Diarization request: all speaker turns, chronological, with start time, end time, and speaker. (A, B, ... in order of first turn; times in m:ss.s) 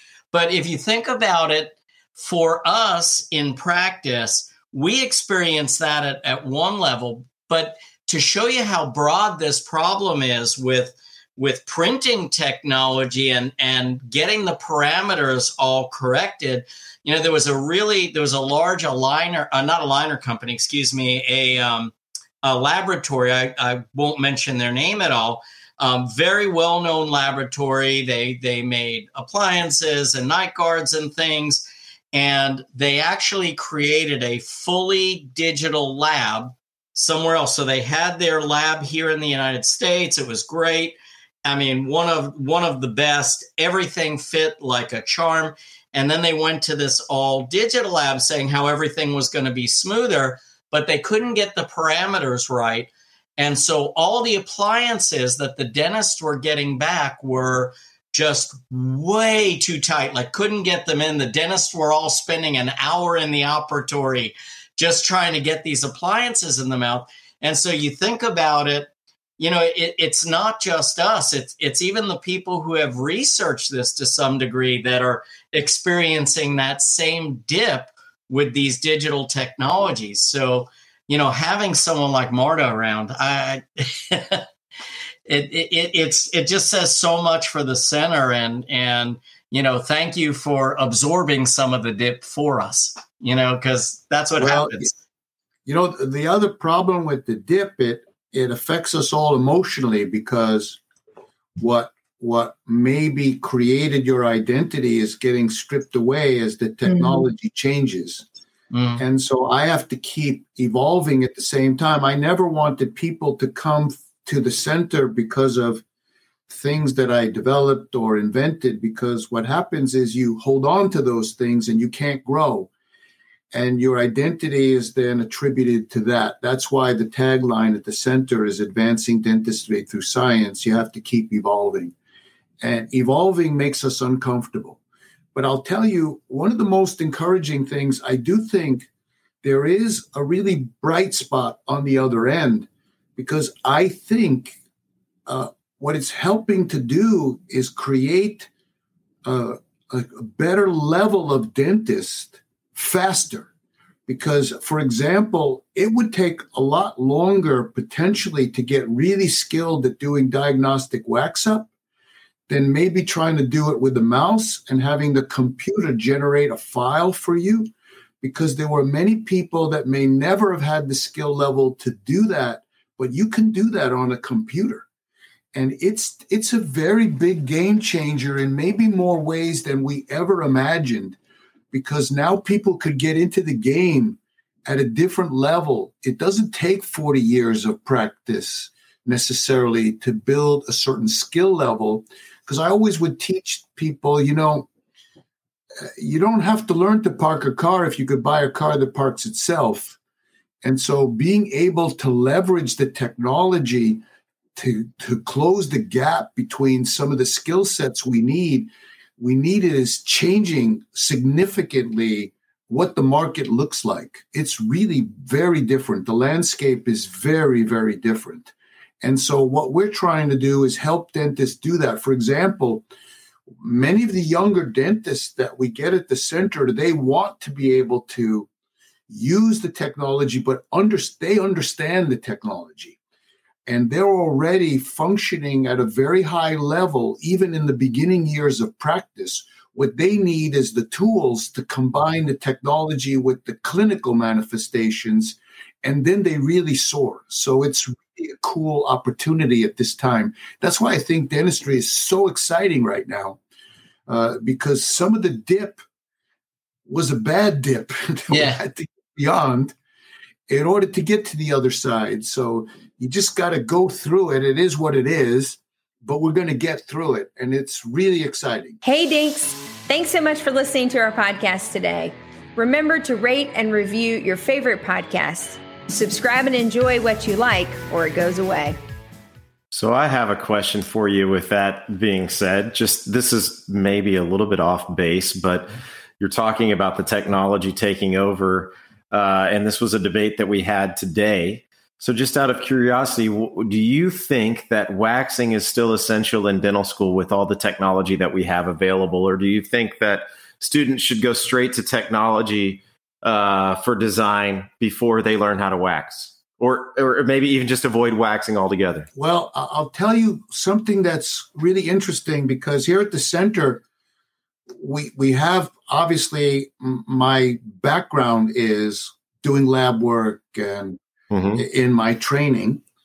0:00.3-1:24.4 A
1:25.3-1:34.9 A
1:34.4-1:34.9 B
1:35.6-1:40.8 B
1:41.6-1:48.2 B
1:46.8-1:47.2 C
1:48.7-1:49.0 A
1:49.0-1:55.8 B
1:56.5-2:02.7 B
2:03.5-2:11.9 B
2:12.6-2:14.8 B
2:15.3-2:18.9 B
2:19.4-2:24.6 B
2:25.3-2:28.5 B
2:29.2-2:33.5 B
2:34.1-2:41.7 B
2:42.5-2:54.8 B
2:55.5-3:01.2 B
3:01.7-3:14.7 B
3:15.8-3:20.0 B
3:20.6-3:24.0 B
3:24.6-3:42.8 B
3:43.6-3:48.5 B
3:49.1-3:53.0 B
3:53.6-4:13.4 B
4:14.1-4:15.8 B
4:16.9-4:19.7 B
4:18.3-4:18.6 A
4:20.5-4:28.8 B
4:28.8-4:38.8 C
4:39.7-5:09.1 D
5:09.1-5:13.8 B
5:14.8-5:21.0 B
5:21.3-5:21.6 D
5:21.5-5:22.8 B